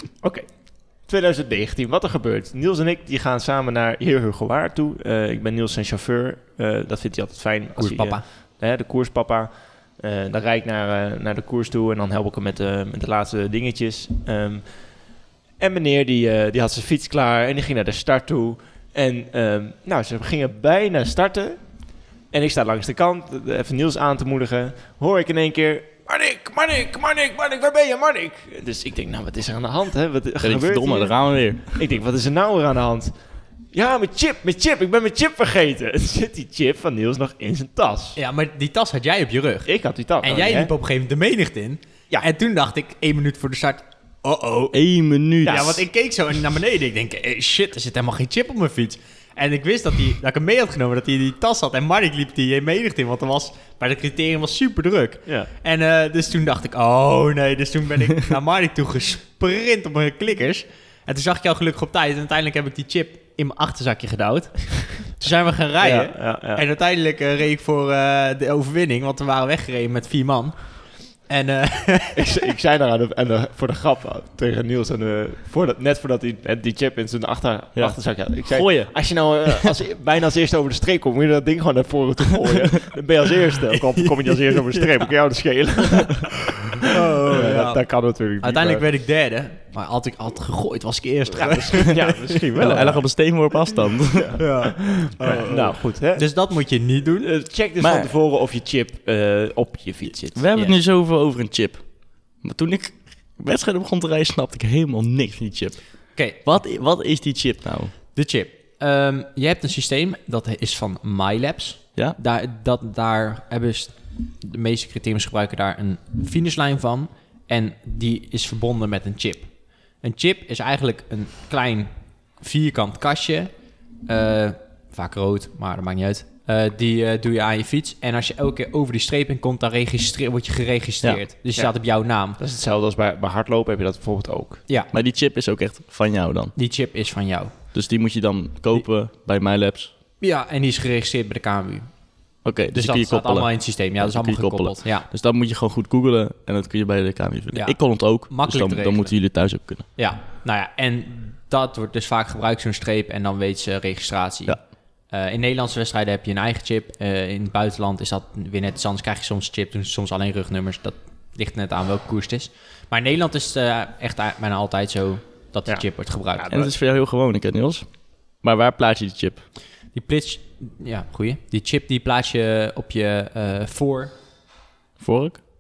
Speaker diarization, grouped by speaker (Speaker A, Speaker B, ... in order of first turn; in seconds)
Speaker A: 0.2-33.2, 33.7-38.2, 39.6-40.7, 65.8-66.6, 72.2-88.8, 91.4-93.1, 94.1-94.5, 95.0-96.3, 97.2-100.4, 131.6-134.6, 165.7-166.7
Speaker B: 7.8-8.2, 38.2-44.8, 45.4-72.3, 84.0-84.9, 86.8-87.8, 88.4-92.8, 94.4-97.3, 106.2-106.4, 108.1-123.5, 124.0-132.4, 136.6-137.5, 140.2-141.9, 142.7-145.1, 147.5-166.5, 169.9-174.1
Speaker C: 30.4-31.8, 44.7-45.8, 77.8-79.7, 92.6-94.4, 97.8-98.1, 100.3-107.9, 134.9-136.5, 137.7-139.9, 142.4-149.9, 166.5-169.5, 175.0-175.5